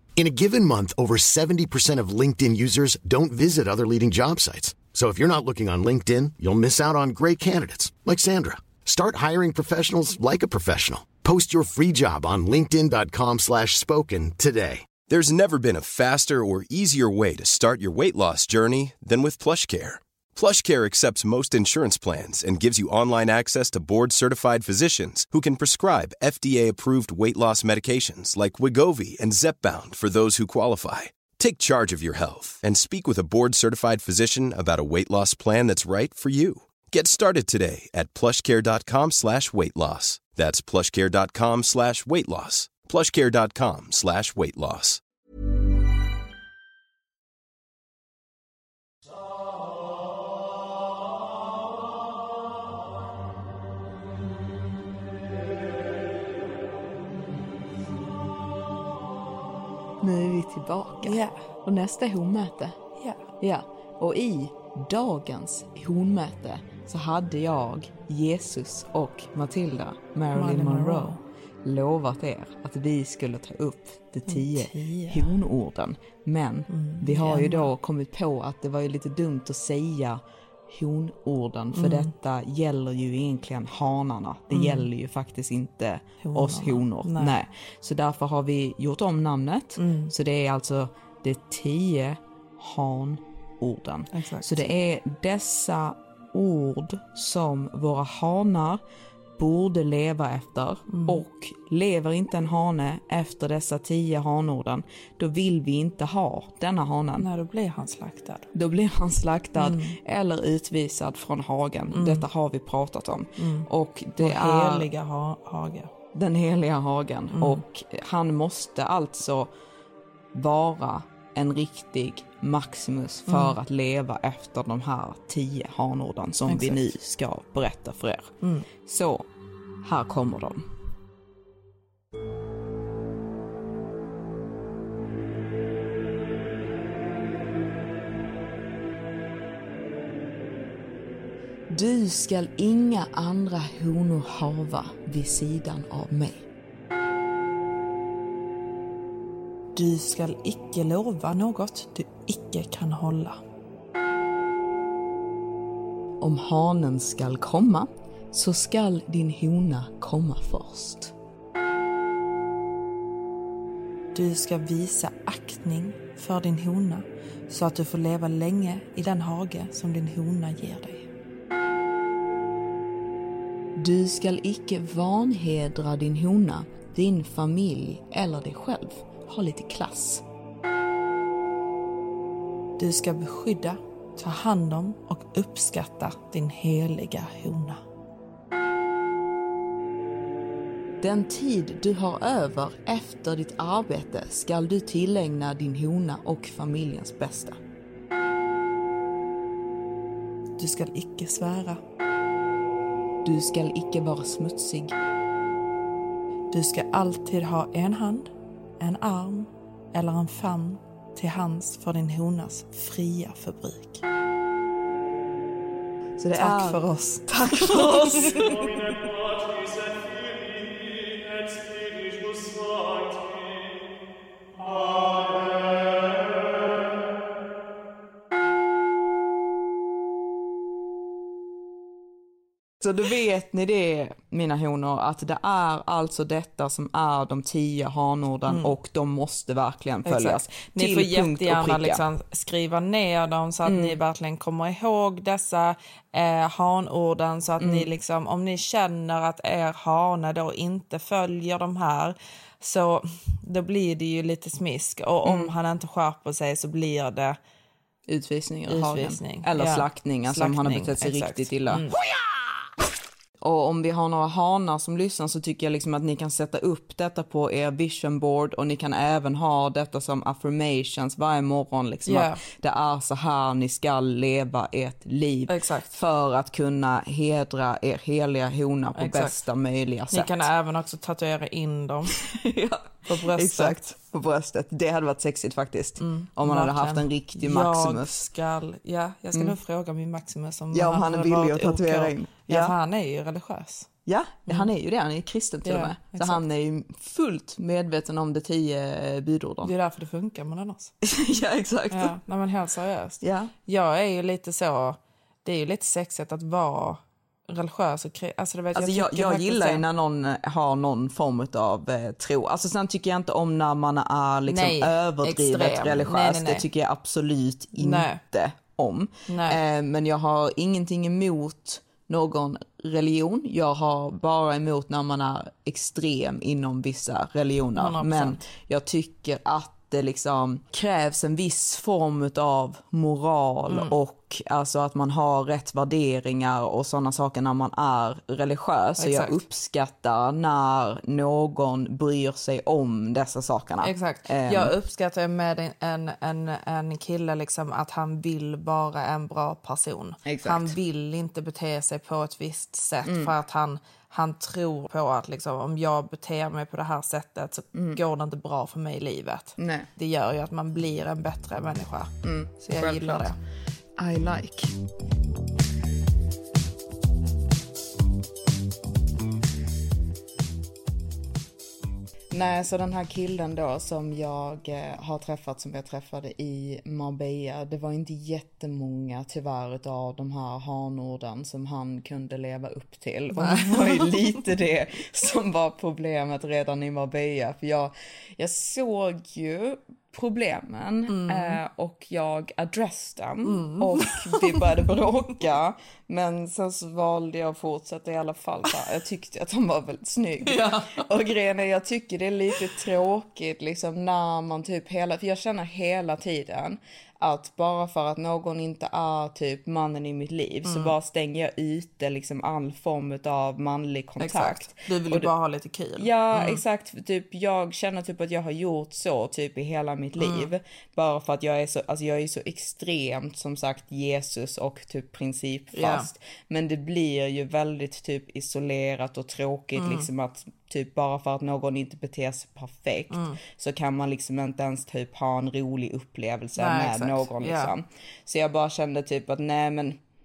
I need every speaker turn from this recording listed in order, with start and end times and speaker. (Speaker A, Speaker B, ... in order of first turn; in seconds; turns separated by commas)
Speaker A: 0.2-14.9, Speaker B: 15.1-45.0, Speaker C: 60.0-62.8, Speaker D: 61.0-61.4, Speaker D: 63.0-63.2, Speaker C: 63.4-98.8, Speaker D: 70.3-71.2, Speaker D: 74.3-75.3, Speaker D: 76.7-77.7, Speaker D: 81.8-82.1, Speaker D: 84.5-84.9, Speaker D: 86.2-87.4, Speaker D: 89.8-90.1, Speaker D: 94.1-94.7, Speaker C: 99.4-107.3, Speaker D: 100.9-101.2, Speaker D: 107.2-108.5, Speaker C: 108.5-114.9, Speaker D: 109.6-110.0, Speaker D: 111.9-112.3, Speaker D: 113.4-113.7, Speaker D: 114.2-115.9, Speaker C: 116.1-119.5, Speaker D: 117.3-117.6, Speaker C: 120.3-129.3, Speaker D: 123.3-123.6, Speaker D: 126.5-126.8, Speaker D: 128.4-128.7, Speaker C: 129.8-130.7, Speaker C: 141.7-146.5, Speaker D: 149.8-153.4, Speaker C: 156.2-161.1, Speaker D: 164.1-171.1, Speaker C: 173.8-180.2, Speaker D: 182.8-187.8, Speaker C: 191.0-197.6, Speaker D: 200.6-201.8, Speaker C: 203.2-205.0, Speaker D: 206.5-214.0, Speaker C: 216.2-216.8, Speaker D: 216.3-218.8, Speaker C: 217.4-218.4, Speaker C: 232.8-242.0, Speaker D: 238.5-238.8, Speaker D: 240.1-257.4, Speaker C: 243.7-244.0, Speaker C: 247.6-247.9, Speaker C: 255.2-255.5, Speaker C: 258.1-261.9, Speaker D: 258.7-262.0, Speaker C: 263.4-280.5, Speaker D: 272.1-272.4, Speaker D: 275.5-276.0, Speaker D: 278.9-279.3, Speaker D: 280.1-282.1, Speaker C: 282.1-288.3, Speaker D: 283.1-283.8, Speaker D: 286.0-293.9, Speaker C: 290.7-292.7, Speaker C: 294.1-299.7, Speaker D: 295.6-296.4, Speaker D: 299.6-300.9, Speaker C: 301.0-302.2, Speaker D: 301.9-309.8, Speaker C: 303.2-303.5, Speaker C: 308.8-344.7, Speaker D: 314.5-316.6, Speaker D: 317.8-318.2, Speaker D: 319.3-319.6, Speaker D: 327.8-328.5, Speaker D: 333.7-333.9, Speaker D: 339.0-339.4, Speaker D: 343.8-363.4, Speaker C: 350.2-350.7, Speaker C: 353.0-353.3, Speaker C: 357.7-358.0, Speaker C: 359.6-359.9, Speaker C: 362.2-363.4, Speaker C: 364.0-364.7, Speaker C: 372.3-415.3, Speaker D: 383.3-384.1, Speaker D: 391.1-391.6, Speaker D: 393.4-394.9, Speaker D: 400.4-401.1, Speaker D: 410.7-410.9, Speaker D: 414.2-416.6, Speaker C: 416.0-440.0, Speaker D: 420.2-420.5, Speaker D: 425.7-426.1, Speaker D: 429.8-430.1, Speaker D: 433.1-433.4, Speaker D: 436.6-437.7